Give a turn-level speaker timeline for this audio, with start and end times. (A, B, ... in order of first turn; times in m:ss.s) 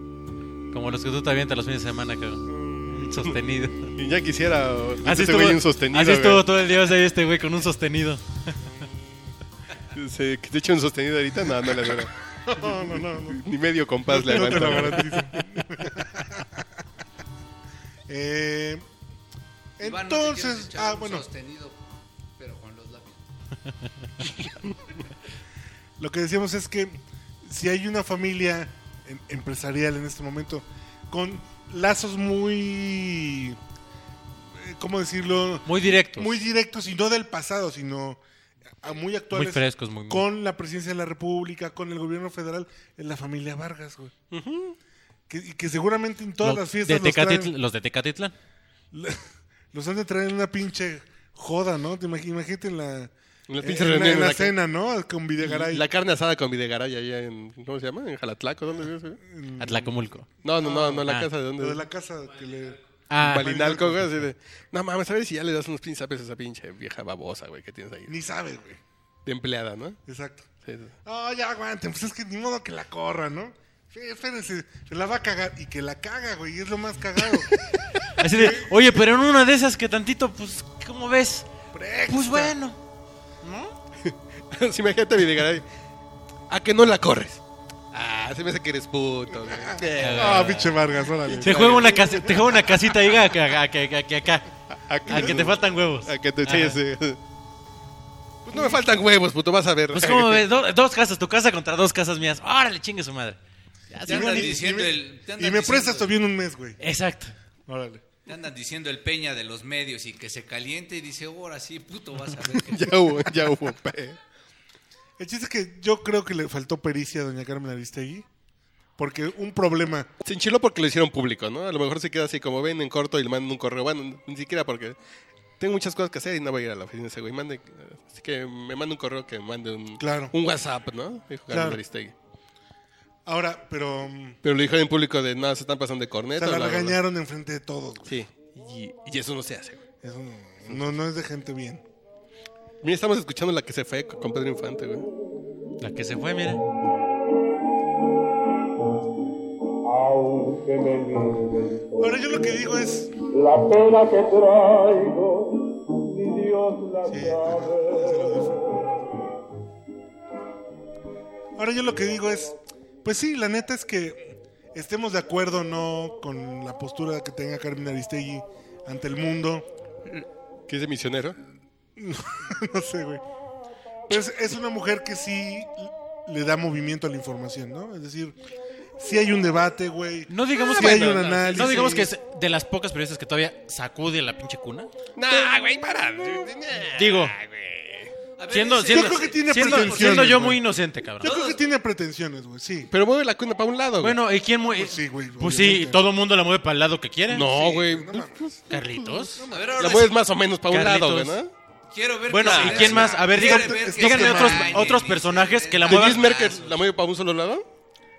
0:00.7-0:03.9 A
0:02.5-0:02.9 B
0:03.9-0:06.5 C
0:05.0-0:08.5 A
0:09.9-0:12.2 C
0:12.4-0:13.4 B
0:13.3-0:15.4 C
0:14.1-0:16.6 B
0:18.1-0:18.8 B
0:19.8-0:21.2 B
0:19.8-0:21.8 D
0:22.4-0:23.2 D
0:23.8-0:24.1 A
0:26.0-0:33.6 B
0:34.5-0:38.2 B
0:35.6-0:36.3 A
0:38.8-0:44.1 B
0:39.3-0:40.2 A
0:44.3-0:44.8 C
0:45.3-0:47.5 B
0:46.4-0:48.3 A
0:48.9-0:49.2 B
0:49.7-0:55.8 B
0:53.5-0:54.5 C
0:55.4-0:59.2 C
0:59.2-1:04.3 B
0:59.6-1:00.3 A
1:00.4-1:01.8 C
1:01.0-1:01.3 A
1:03.1-1:03.5 A
1:03.2-1:08.1 C
1:08.1-1:08.8 B
1:09.2-1:10.0 C
1:10.0-1:10.5 B
1:10.6-1:10.9 C
1:11.0-1:17.6 B
1:18.2-1:21.4 A
1:18.2-1:18.8 B
1:21.7-1:22.5 B
1:22.1-1:22.8 A
1:23.4-1:23.7 A
1:24.0-1:25.6 C
1:26.5-1:27.4 C
1:27.9-1:30.5 C
1:29.4-1:32.4 B
1:29.9-1:30.8 A
1:31.3-1:32.2 C
1:31.4-1:34.5 A
1:34.7-1:37.2 C
1:35.0-1:36.8 A
1:38.4-1:40.4 C
1:39.9-1:43.4 A
1:43.9-1:44.5 A
1:44.0-1:46.1 D
1:44.1-1:46.8 B
1:46.8-1:47.3 A
1:47.7-1:48.0 B
1:48.2-1:53.3 D
1:52.6-1:54.2 C
1:55.2-1:58.2 B
1:59.0-2:00.1 B
2:00.2-2:05.0 C
2:05.6-2:12.1 C
2:10.0-2:10.3 B
2:11.5-2:11.8 B
2:13.2-2:14.4 B
2:14.4-2:17.0 C
2:16.3-2:18.1 B
2:18.0-2:19.8 C
2:20.0-2:21.8 B
2:20.7-2:20.9 C
2:22.8-2:25.0 C
2:25.8-2:26.6 A
2:29.8-2:32.6 E
2:32.0-2:33.1 B
2:33.3-2:38.9 E
2:37.1-2:38.6 B
2:41.6-2:49.7 B
2:50.2-2:51.4 C
2:52.0-2:53.2 B
2:54.1-2:58.4 B
2:59.0-3:02.1 B
3:00.3-3:04.9 A
3:00.5-3:01.9 C
3:05.2-3:08.1 C
3:07.0-3:07.3 A
3:08.4-3:10.4 D
3:08.5-3:11.3 A
3:08.9-3:10.6 B
3:11.2-3:12.9 B
3:11.2-3:11.6 D
3:12.9-3:14.2 C
3:14.0-3:17.5 A
3:14.7-3:16.0 B
3:17.3-3:21.5 C
3:17.4-3:18.5 B
3:18.7-3:19.4 A
3:19.3-3:19.8 B
3:19.5-3:20.2 D
3:20.7-3:21.4 A
3:21.9-3:26.8 D
3:22.3-3:26.3 A
3:22.4-3:23.2 C
3:23.2-3:24.9 B
3:25.8-3:27.6 C